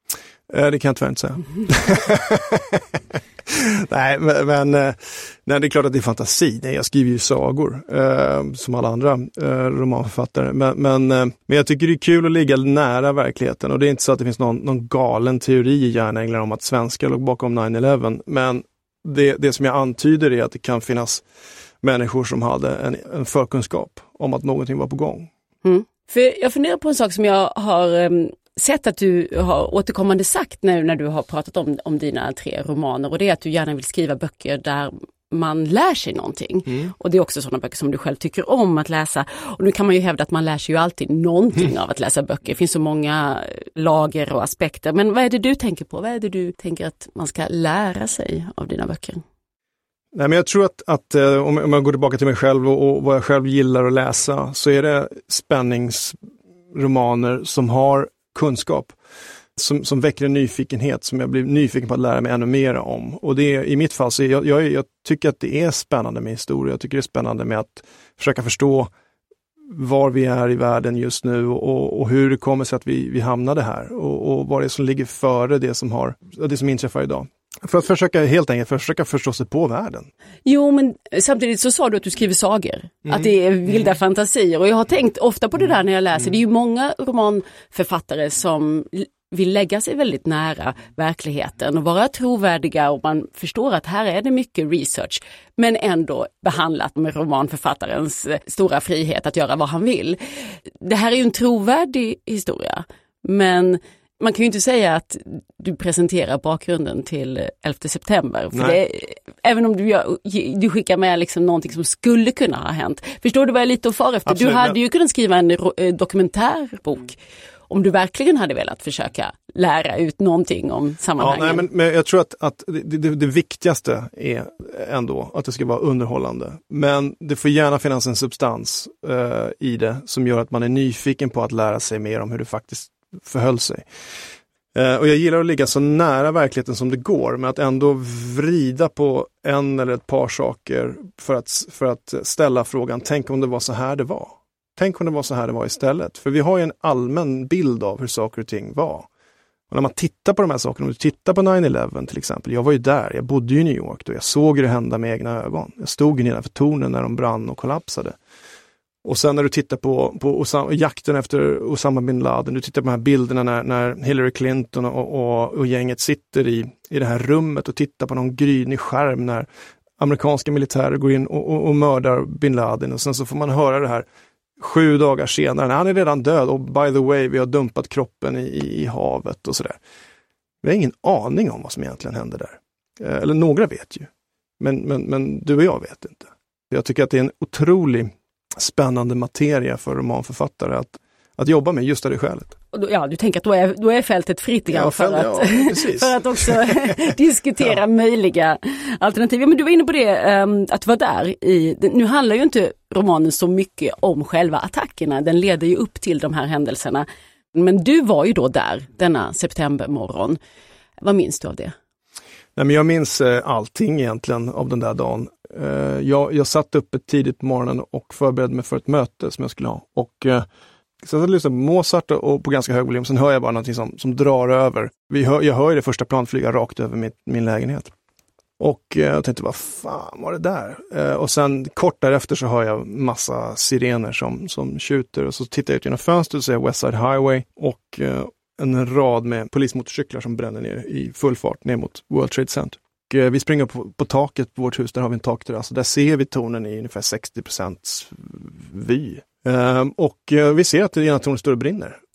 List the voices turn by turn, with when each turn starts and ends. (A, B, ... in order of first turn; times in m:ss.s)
0:00.5-0:21.2 A
0:21.8-0:25.3 A
0:25.6-0:49.2 B
0:50.1-0:56.2 A
0:56.7-0:59.0 A
0:59.6-1:08.9 A
1:09.7-1:20.1 A
1:20.4-1:57.2 B
1:48.5-1:48.8 A
1:54.2-1:54.8 A
1:57.7-2:01.6 B
2:01.2-2:13.9 A
2:14.7-2:29.1 A
2:29.7-2:38.2 A
2:39.0-2:49.5 A
2:50.0-2:54.0 A
2:54.6-2:59.8 A
3:00.6-3:12.6 A
3:12.7-3:30.4 B
3:14.7-3:17.0 A
3:31.0-3:31.7 B
3:32.6-3:40.4 A
3:41.0-3:47.9 A
3:48.6-4:12.0 A